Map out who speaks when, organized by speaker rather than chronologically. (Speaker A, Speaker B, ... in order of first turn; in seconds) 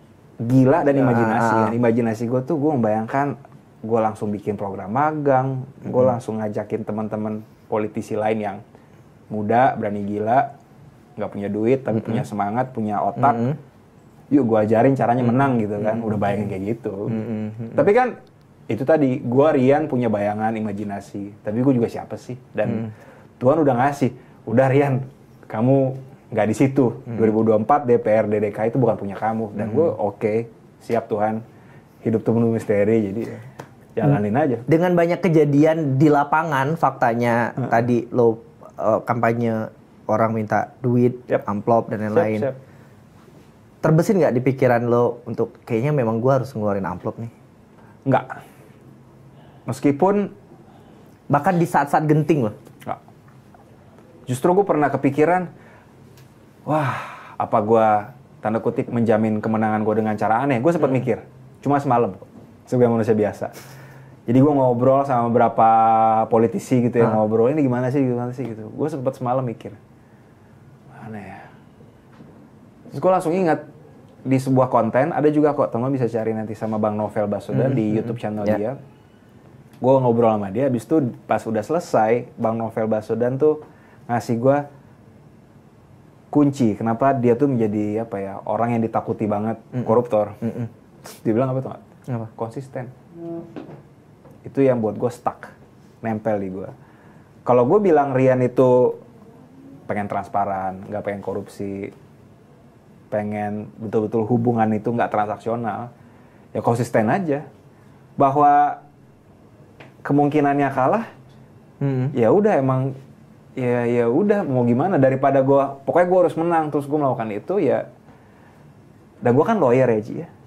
Speaker A: 0.4-8.6, 9.3-10.5, 11.2-13.6, 14.3-18.1, 18.7-31.4, 32.0-34.6, 42.1-42.6, 48.1-48.4, 49.7-50.3, 54.3-55.5, 56.7-63.5, 64.3-69.8, 70.9-71.5, 72.9-73.6, 74.3-78.8, 79.8-84.6, 86.3-92.9, 94.4-96.7, 97.5-99.0, 99.9-101.9, 103.1-105.9, 106.5-107.4, 108.2-108.8, 110.0-111.1, 112.1-113.0, 113.6-117.8, 119.2-120.3
Speaker B: 1.0-1.8, 17.2-17.8, 34.7-42.5, 43.8-47.3, 51.3-52.5, 77.7-78.6, 111.8-112.1